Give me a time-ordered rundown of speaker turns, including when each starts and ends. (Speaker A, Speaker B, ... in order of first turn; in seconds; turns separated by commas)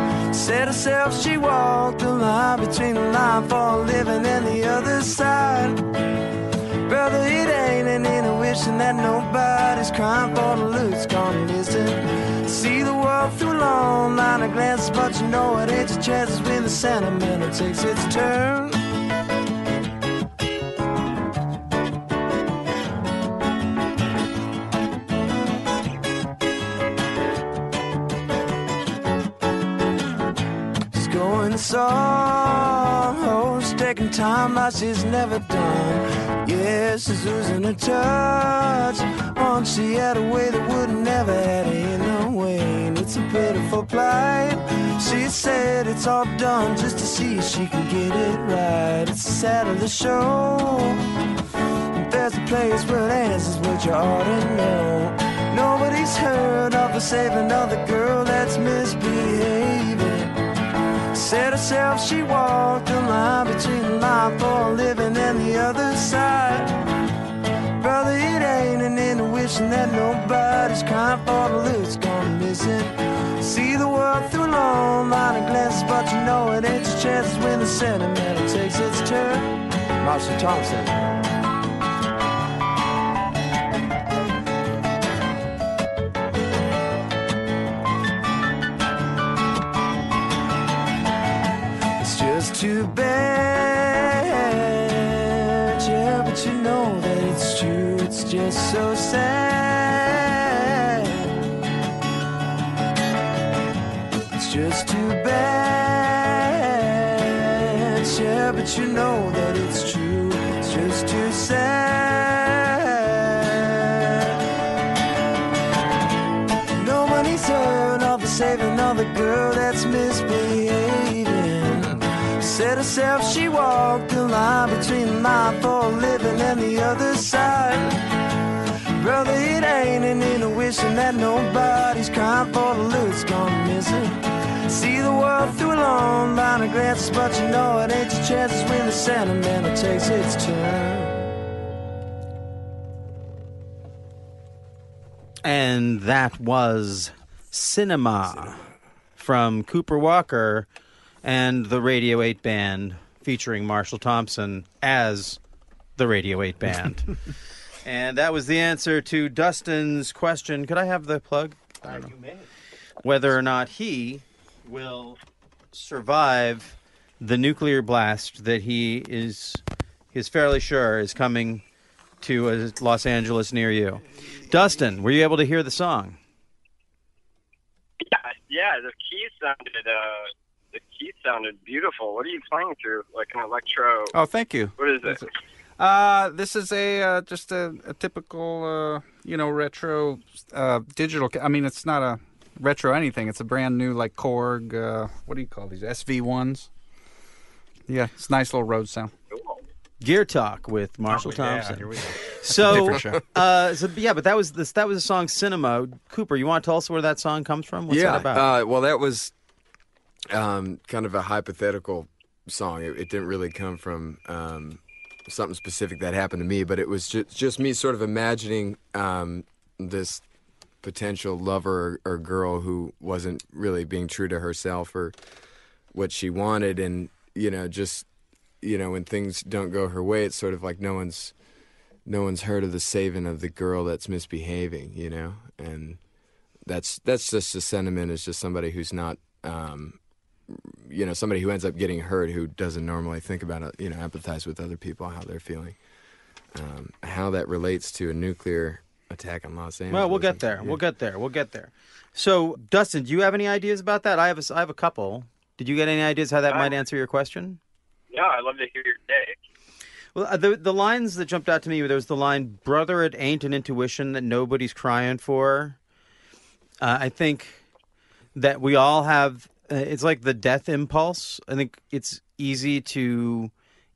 Speaker A: 0.3-5.8, Speaker A: 6.9-18.8, Speaker A: 30.9-51.0, Speaker A: 52.1-60.3, Speaker A: 61.1-66.7, Speaker A: 67.8-79.5, Speaker A: 80.0-80.8, Speaker B: 80.7-81.1, Speaker A: 92.0-95.0, Speaker A: 95.8-100.2, Speaker A: 104.3-107.3, Speaker A: 108.1-113.2, Speaker A: 116.8-127.9, Speaker A: 129.0-134.1, Speaker A: 134.7-141.2, Speaker C: 145.4-148.6, Speaker C: 149.2-150.7, Speaker C: 151.2-155.4, Speaker C: 156.0-157.1, Speaker C: 157.8-162.1, Speaker C: 163.0-165.2, Speaker C: 165.7-169.6, Speaker C: 170.1-171.6, Speaker C: 172.2-176.2, Speaker D: 178.0-184.1, Speaker E: 184.1-185.2, Speaker D: 184.8-185.2, Speaker E: 185.8-196.7, Speaker E: 197.9-199.1, Speaker C: 200.0-208.4, Speaker E: 201.1-203.2, Speaker B: 207.9-209.3, Speaker B: 210.3-220.2, Speaker B: 220.8-225.1, Speaker B: 225.9-228.1, Speaker B: 228.6-231.3, Speaker B: 232.0-236.0, Speaker B: 236.6-245.8, Speaker B: 246.5-250.8, Speaker C: 249.9-257.6, Speaker D: 256.5-256.7, Speaker D: 258.1-259.3, Speaker C: 260.1-265.8, Speaker C: 266.8-267.6, Speaker C: 268.3-273.5